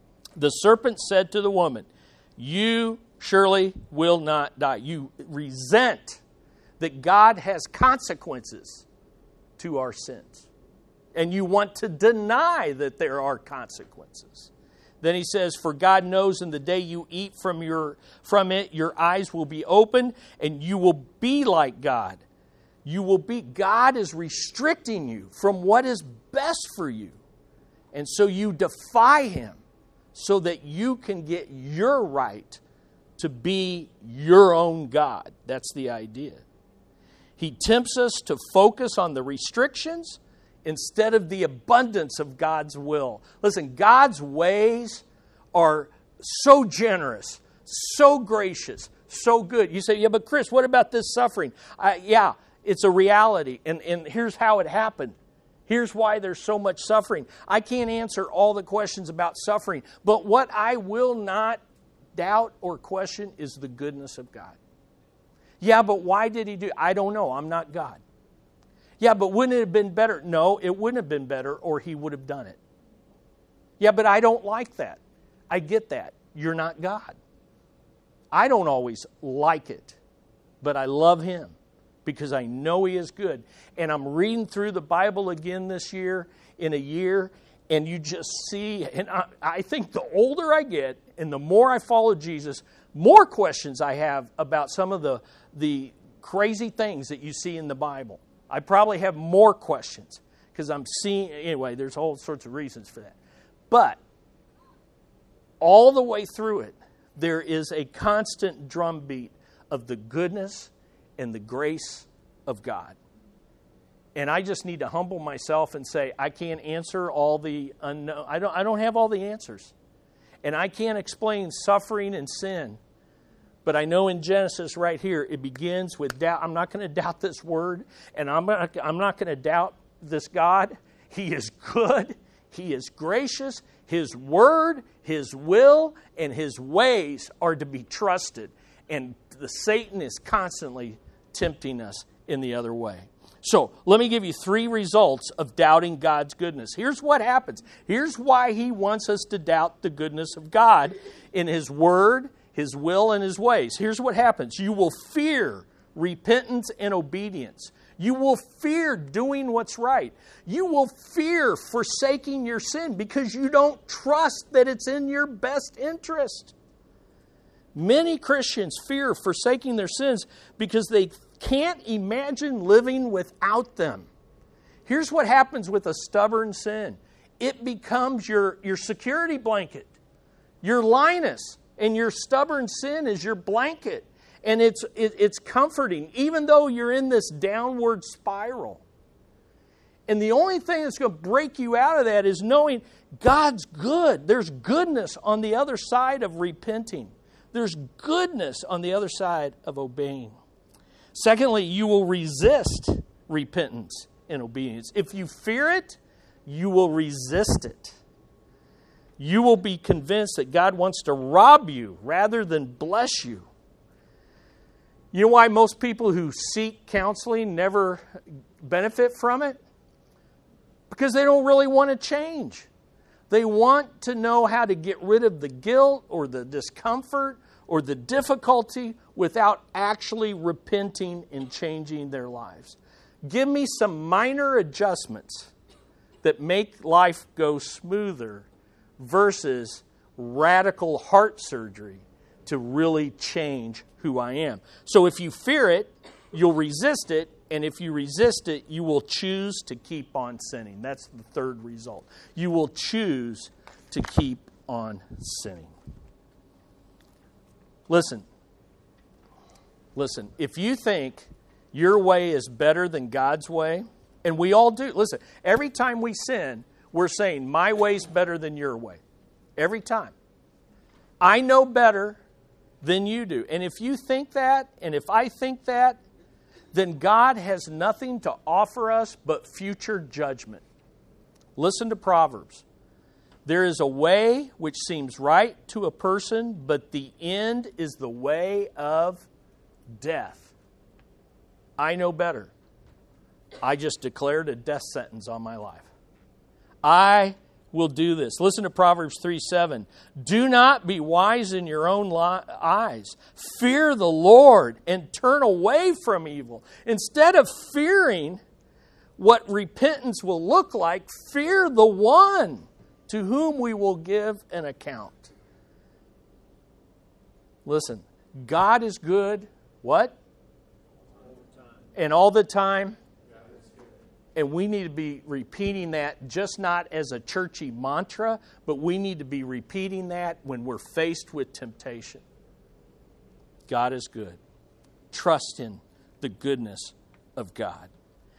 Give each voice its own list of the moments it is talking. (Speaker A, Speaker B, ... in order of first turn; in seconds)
Speaker A: 0.4-6.2, 6.8-8.8, 9.6-10.5, 11.1-14.5, 15.0-22.2, 22.8-27.1, 27.9-29.6, 30.1-32.6, 33.2-36.4, 37.4-55.1, 55.7-61.6, 62.1-64.6, 65.6-68.0, 69.0-72.6, 73.8-77.2, 78.3-80.0, 80.6-103.2, 103.7-104.0, 105.6-113.0, 114.1-119.7, 120.4-122.8, 123.6-166.5, 167.7-174.1, 174.9-179.9, 180.6-188.8, 190.1-200.3, 201.1-207.9, 209.2-213.5, 215.1-218.0, 218.6-219.6, 220.9-222.7, 223.3-235.5, 236.2-238.4, 239.0-255.7, 257.9-258.2, 259.9-269.0, 269.6-270.1, 271.2-272.2, 272.8-276.0, 276.7-280.6, 281.6-282.6, 283.4-289.3, 289.9-290.5, 291.8-292.5, 293.6-295.9, 296.8-308.4, 309.2-315.3, 317.6-320.1, 321.9-323.0, 324.3-332.2, 333.7-334.4, 335.1-337.9